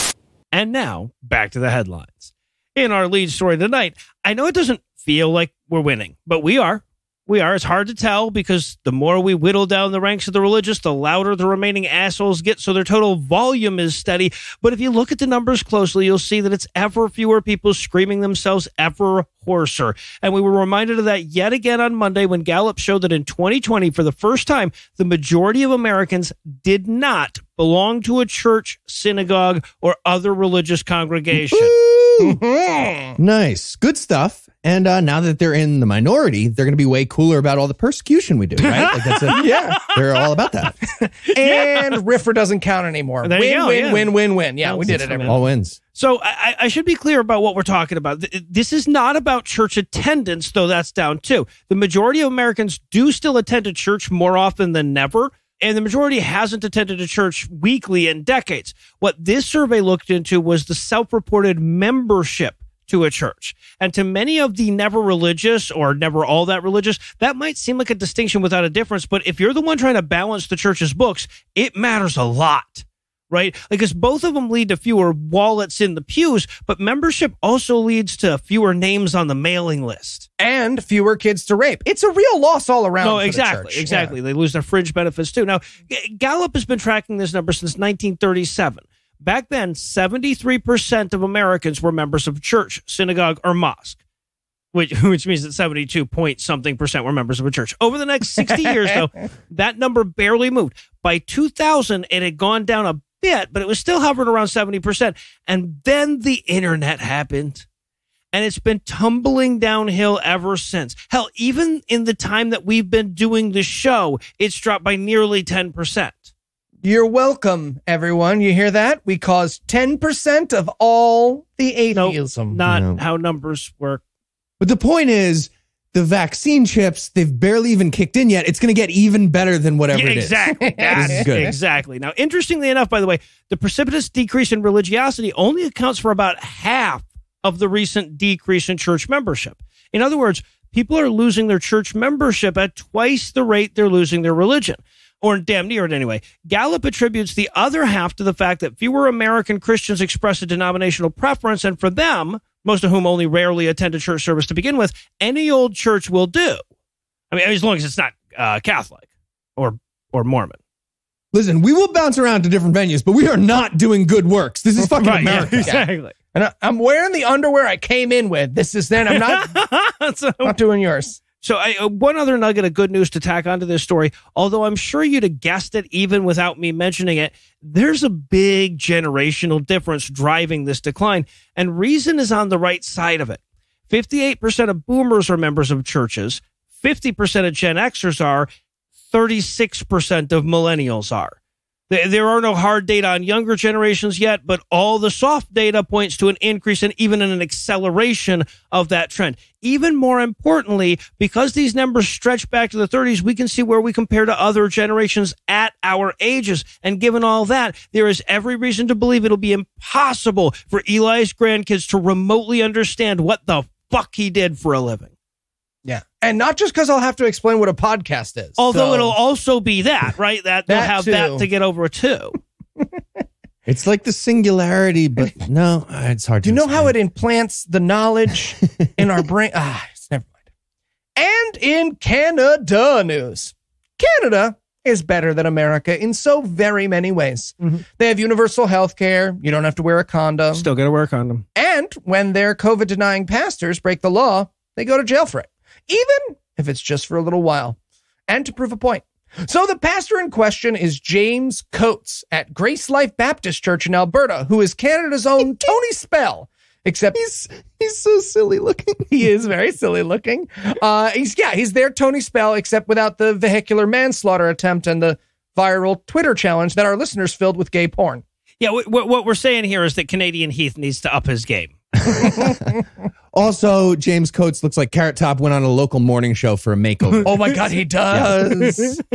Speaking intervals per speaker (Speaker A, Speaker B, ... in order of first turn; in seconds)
Speaker A: 0.5-31.7, 38.6-39.8, 41.4-42.0, 43.2-80.3, 83.0-94.0, 94.7-107.7, 108.3-116.3, 121.9-124.0, 129.9-156.6, 157.3-160.6, 165.0-166.1, 169.1-170.6, 171.4-188.5, 189.1-191.4, 191.9-215.1, 218.6-222.4, 240.5-241.4, 268.6-271.8
Speaker B: 31.3-32.4, 33.2-40.8, 44.9-45.8, 122.7-123.0, 124.6-131.6, 161.3-165.8, 223.7-226.9, 257.1-259.1, 272.1-272.6, 273.3-277.5, 278.1-278.5
Speaker C: 32.2-33.2, 39.4-39.7, 41.2-45.4, 80.4-84.1, 116.8-122.6, 130.6-131.2, 165.2-169.5, 170.4-171.2, 215.8-219.2, 220.7-221.5, 226.4-230.3, 231.2-240.7, 241.6-247.8, 248.3-257.2, 259.1-268.2, 277.2-279.0